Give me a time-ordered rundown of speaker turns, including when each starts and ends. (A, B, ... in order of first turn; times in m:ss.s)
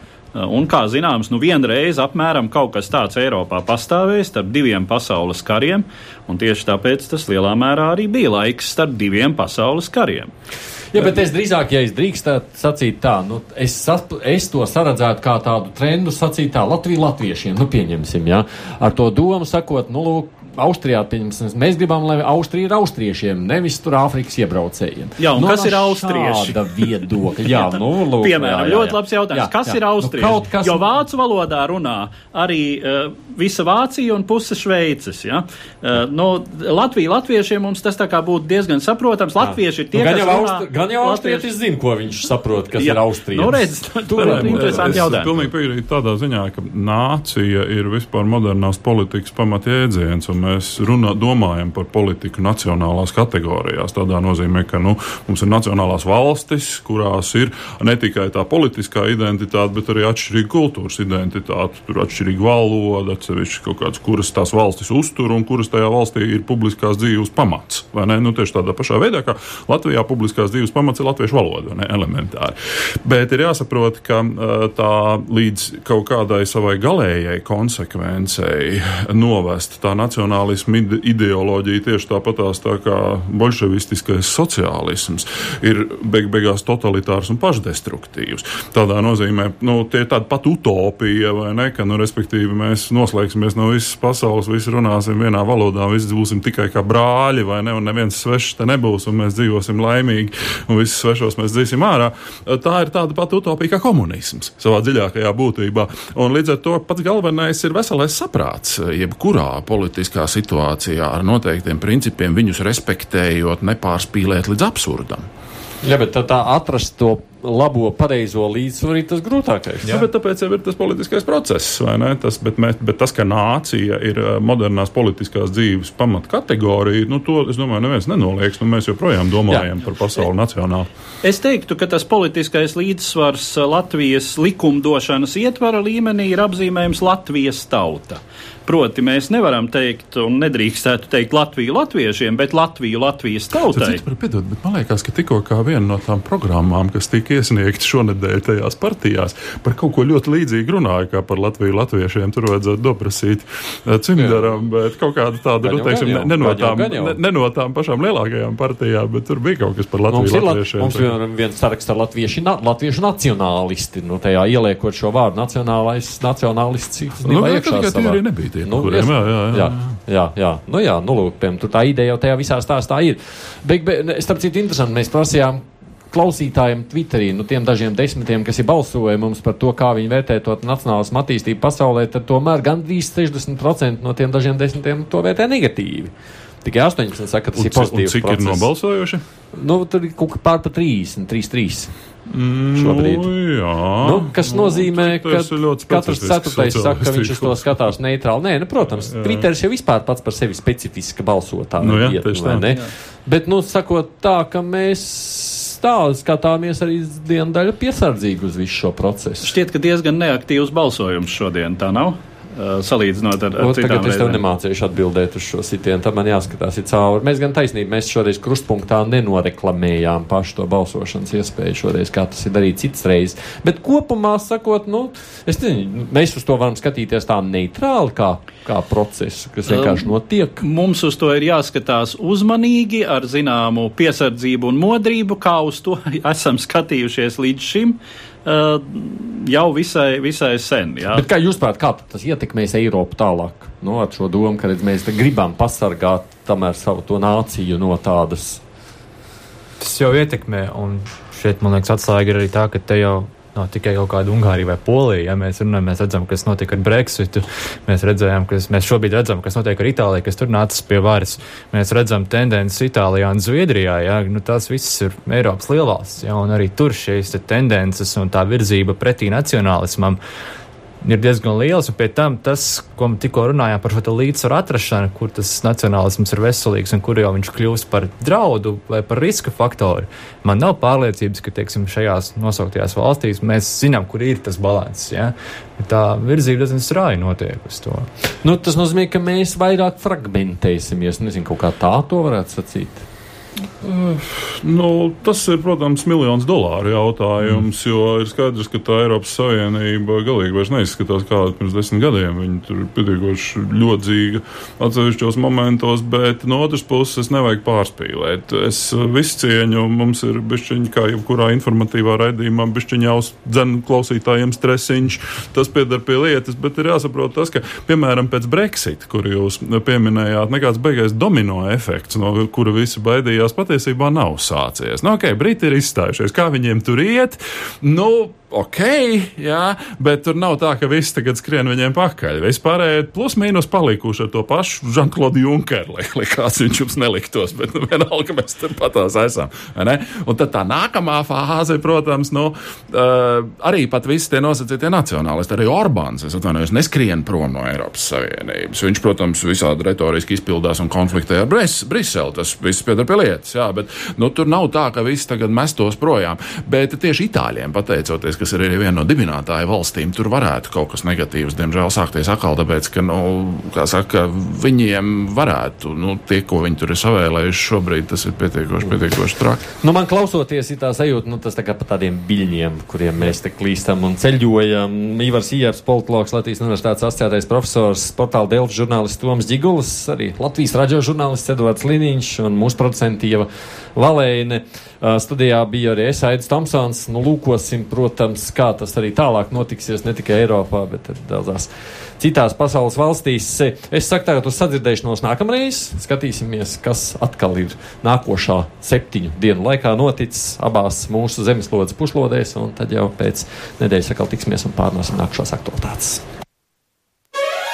0:00.3-0:10.3 A
0:10.9-0:30.9 B
0:25.2-0:26.9 A
0:27.5-0:41.5 A
0:39.4-0:45.1 B
0:42.8-0:45.4 A
0:44.2-1:55.3 C
1:55.8-1:59.9 B
1:59.9-2:10.9 C
2:11.2-2:24.0 A
2:23.7-2:41.1 C
2:34.2-2:34.5 B
2:35.6-2:37.2 B
2:40.1-3:08.7 B
2:47.2-2:50.0 C
3:07.5-3:09.3 C
3:09.5-3:11.9 B
3:12.3-3:17.8 C
3:12.7-3:13.4 B
3:14.0-3:29.6 B
3:18.9-3:19.5 C
3:21.8-3:22.8 C
3:29.4-3:34.4 A
3:33.6-3:50.6 B
3:49.7-3:50.0 A
3:50.6-4:01.3 A
4:01.1-4:08.6 B
4:09.8-4:30.2 D
4:31.0-4:48.1 D
4:48.4-4:53.0 B
4:53.8-6:09.6 C
6:09.7-6:46.2 B